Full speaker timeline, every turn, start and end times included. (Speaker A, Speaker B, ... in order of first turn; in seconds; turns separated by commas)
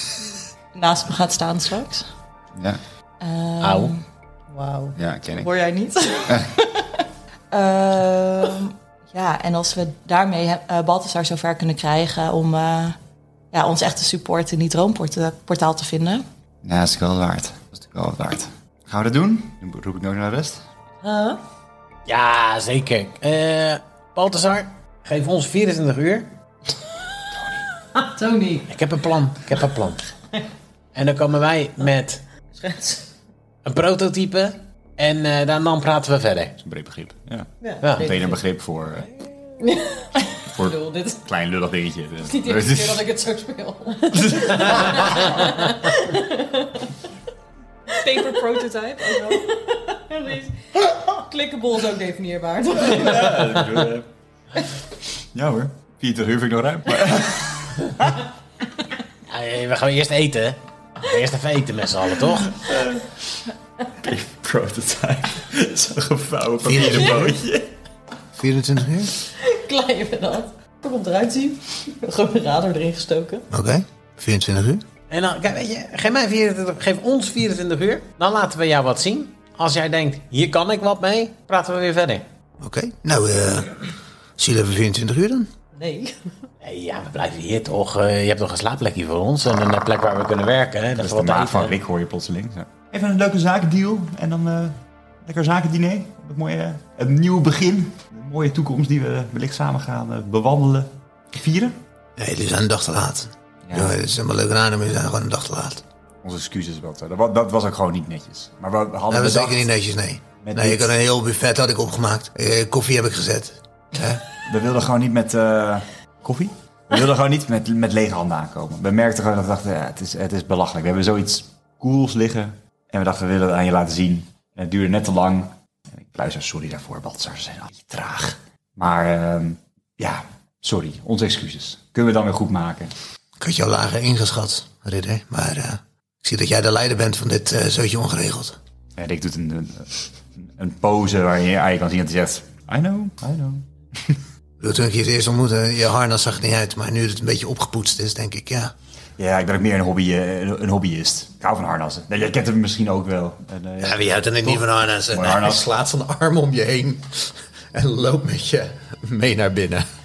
Speaker A: 0.7-2.1, Speaker B: 2.5-2.8, Speaker A: 3.2-4.0, Speaker C: 3.6-4.0, Speaker D: 4.5-5.0, Speaker B: 5.0-5.5, Speaker A: 5.4-13.0, Speaker A: 13.5-16.2, Speaker B: 16.6-20.6, Speaker D: 21.0-21.4, Speaker C: 22.1-26.3, Speaker B: 27.3-27.6, Speaker D: 28.0-28.7, Speaker C: 28.7-30.0, Speaker C: 30.9-32.2, Speaker D: 32.6-33.1, Speaker C: 33.6-36.6, Speaker B: 36.6-39.3, Speaker D: 37.6-38.4, Speaker C: 37.8-38.2, Speaker D: 39.6-41.2, Speaker B: 40.5-43.1, Speaker D: 42.3-46.9, Speaker B: 44.3-45.4, Speaker A: 48.0-49.5, Speaker D: 48.0-53.6, Speaker B: 52.8-54.1, Speaker B: 55.3-58.2, Speaker C: 59.3-62.6, Speaker B: 62.5-63.2, Speaker B: 63.9-67.7, Speaker E: 66.6-67.3, Speaker E: 68.4-69.1, Speaker D: 69.3-73.5, Speaker E: 73.5-74.8, Speaker C: 75.1-82.2, Speaker E: 82.6-83.8, Speaker E: 84.4-85.5, Speaker D: 85.7-86.3, Speaker C: 86.6-91.8, Speaker B: 91.0-101.8, Speaker E: 102.2-105.8, Speaker B: 103.7-104.0, Speaker B: 106.2-109.7, Speaker E: 109.1-114.2, Speaker B: 110.4-110.9, Speaker B: 114.4-132.9, Speaker E: 133.4-138.6, Speaker B: 139.0-144.2, Speaker E: 144.6-148.7, Speaker B: 149.2-155.7, Speaker E: 153.8-159.9